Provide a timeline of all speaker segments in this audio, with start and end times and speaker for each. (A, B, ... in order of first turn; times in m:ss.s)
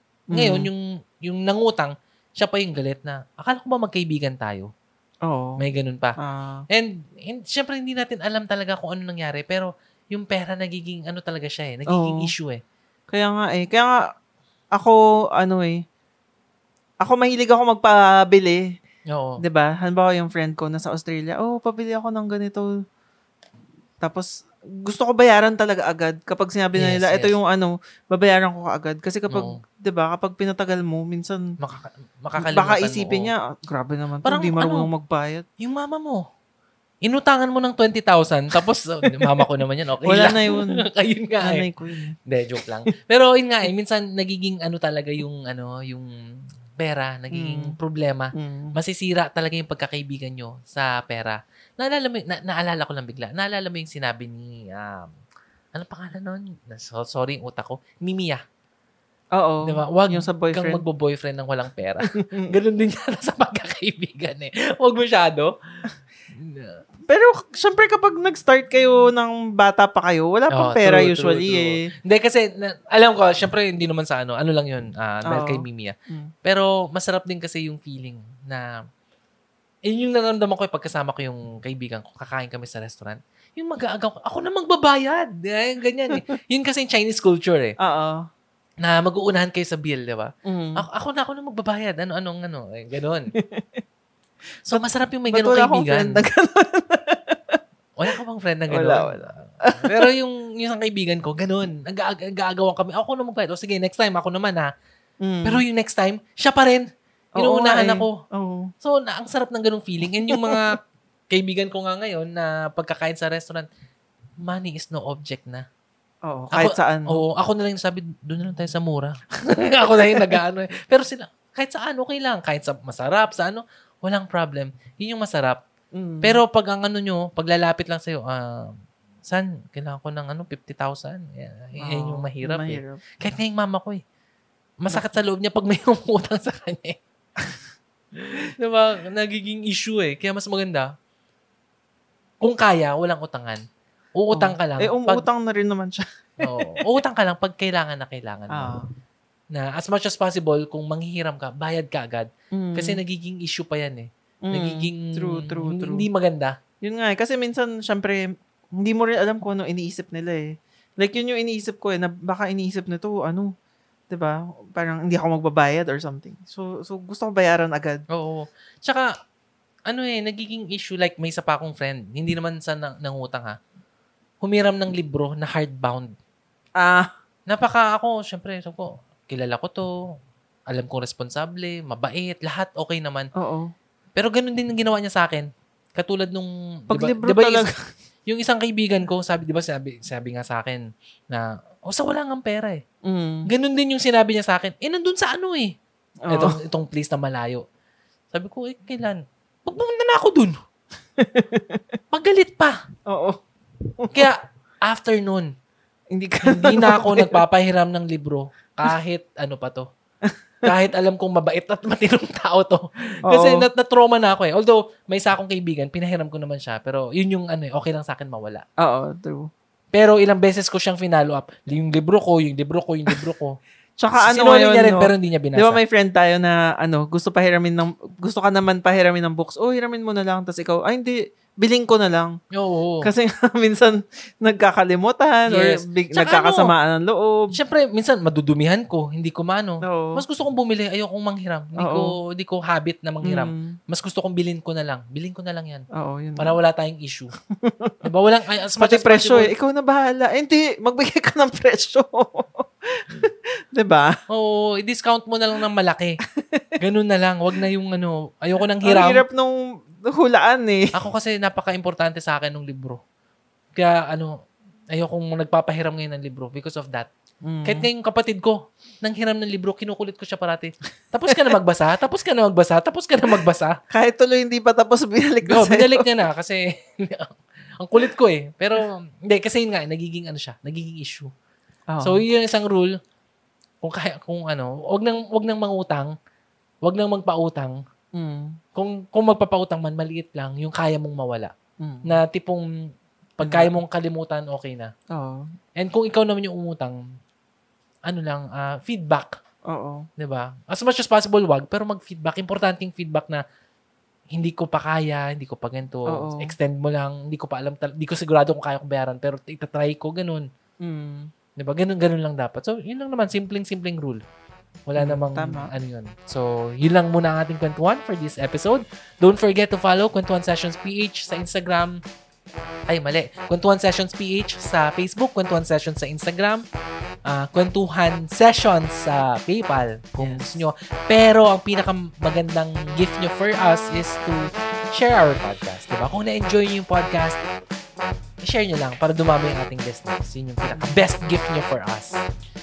0:00.3-0:00.7 A
0:00.3-0:04.7 B
0:05.3-0:05.6 A
0:05.6-0:06.2 B
0:06.2-0:06.6 A
0:06.7-0:12.6 B
0:11.9-0:12.3 A
0:13.1-0:14.0 A
0:14.8-0:15.8 A
0:17.0-0:18.8 A
0:19.1-0:19.4 B
0:19.4-0:22.7 A
0:24.0-0:31.6 A
0:26.8-0:27.4 B
0:29.3-0:29.6 B
0:31.6-0:33.3 B
0:32.4-0:35.4 A
0:34.2-0:34.9 B
0:35.6-0:36.2 B
0:37.0-0:41.7 B
0:39.1-0:39.3 A
0:40.0-0:40.8 A
0:41.4-0:42.2 A
0:42.3-0:46.1 B
0:46.8-0:55.1 B
0:47.3-0:47.7 A
0:48.4-0:48.7 A
0:55.8-0:58.4 B
0:59.4-1:00.8 A
0:59.6-1:05.5 B
1:02.1-1:02.5 A
1:06.3-1:06.8 B
1:07.1-1:11.9 A
1:10.5-1:18.7 B
1:15.3-1:16.3 A
1:19.9-1:27.8 B
1:27.8-1:28.3 A
1:28.8-1:33.3 B
1:30.4-1:30.8 A
1:33.4-1:33.8 A
1:34.7-1:36.2 B
1:34.7-1:37.6 A
1:38.0-1:44.7 B
1:38.7-1:40.1 A
1:45.2-1:45.6 A
1:45.4-1:46.9 B
1:47.4-1:48.2 B
1:47.4-1:48.7 A
1:48.8-1:50.8 B
1:50.3-1:50.6 A
1:51.3-1:53.7 B
1:54.4-1:55.7 B
1:56.3-1:57.2 A
1:56.5-2:05.6 B
2:00.1-2:00.4 A
2:06.0-2:06.4 A
2:06.2-2:08.7 B
2:09.3-2:14.0 B
2:11.8-2:13.0 A
2:14.8-2:17.0 B
2:18.2-2:20.9 B
2:22.4-2:23.6 B
2:24.2-2:25.2 B
2:24.3-2:26.8 A
2:26.4-2:28.7 B
2:28.5-2:28.9 A
2:29.5-2:36.6 B
2:32.5-2:33.0 A
2:34.5-2:36.0 A
2:36.8-2:43.5 A
2:44.1-2:48.0 A
2:48.1-2:49.1 B
2:49.9-2:53.6 B
2:54.4-2:56.1 B
2:56.8-2:57.1 A
2:57.5-2:59.9 B
3:00.7-3:03.3 B
3:03.4-3:03.7 A
3:04.2-3:07.7 B
3:06.9-3:07.8 A
3:08.3-3:12.8 B
3:13.0-3:13.5 A
3:13.5-3:15.7 B
3:16.3-3:16.6 A
3:16.3-3:17.6 B
3:18.3-3:20.6 B
3:21.2-3:21.8 A
3:22.1-3:22.8 B
3:23.1-3:23.4 A
3:24.0-3:24.3 A
3:24.1-3:25.5 B
3:26.1-3:27.4 A
3:26.4-3:29.9 B
3:30.2-3:30.7 A
3:30.6-3:38.6 B
3:33.3-3:33.7 A
3:38.8-3:39.5 A
3:39.9-3:43.6 B
3:44.0-3:52.4 A
3:44.2-3:45.8 B
3:52.5-3:53.1 B
3:53.0-3:57.5 A
3:55.5-3:56.7 B
3:57.5-4:05.9 B
3:59.8-4:00.2 A
4:01.8-4:02.1 A
4:03.2-4:03.8 A
4:06.0-4:06.5 A
4:06.4-4:07.3 B
4:07.5-4:08.0 A
4:08.0-4:09.5 B
4:08.8-4:14.2 A
4:14.3-4:16.2 B
4:16.4-4:16.8 A
4:16.8-4:19.2 B
4:18.8-4:20.9 A
4:20.9-4:23.0 B
4:23.8-4:24.4 B
4:24.9-4:27.1 B
4:27.4-4:27.9 A
4:27.7-4:33.8 B
4:33.9-4:36.1 A
4:35.5-4:41.3 B
4:41.9-4:42.2 A
4:42.0-4:43.0 B
4:43.8-4:46.1 B
4:46.8-4:47.8 B
4:48.2-4:48.6 A
4:48.8-4:51.5 B
4:51.8-4:52.2 A
4:52.0-4:52.7 B
4:53.4-4:54.9 B
4:53.4-4:53.7 A
4:55.1-4:55.5 A
4:55.8-4:57.0 B
4:58.1-4:59.4 B
4:59.7-5:00.1 A
5:00.2-5:03.4 B
5:04.3-5:10.5 B
5:06.1-5:06.6 A
5:10.8-5:11.3 A
5:11.6-5:14.2 B
5:14.9-5:22.0 B
5:15.0-5:15.7 A
5:22.9-5:26.6 B
5:27.3-5:37.4 B
5:30.2-5:30.6 A
5:38.4-5:42.1 B
5:40.8-5:41.0 A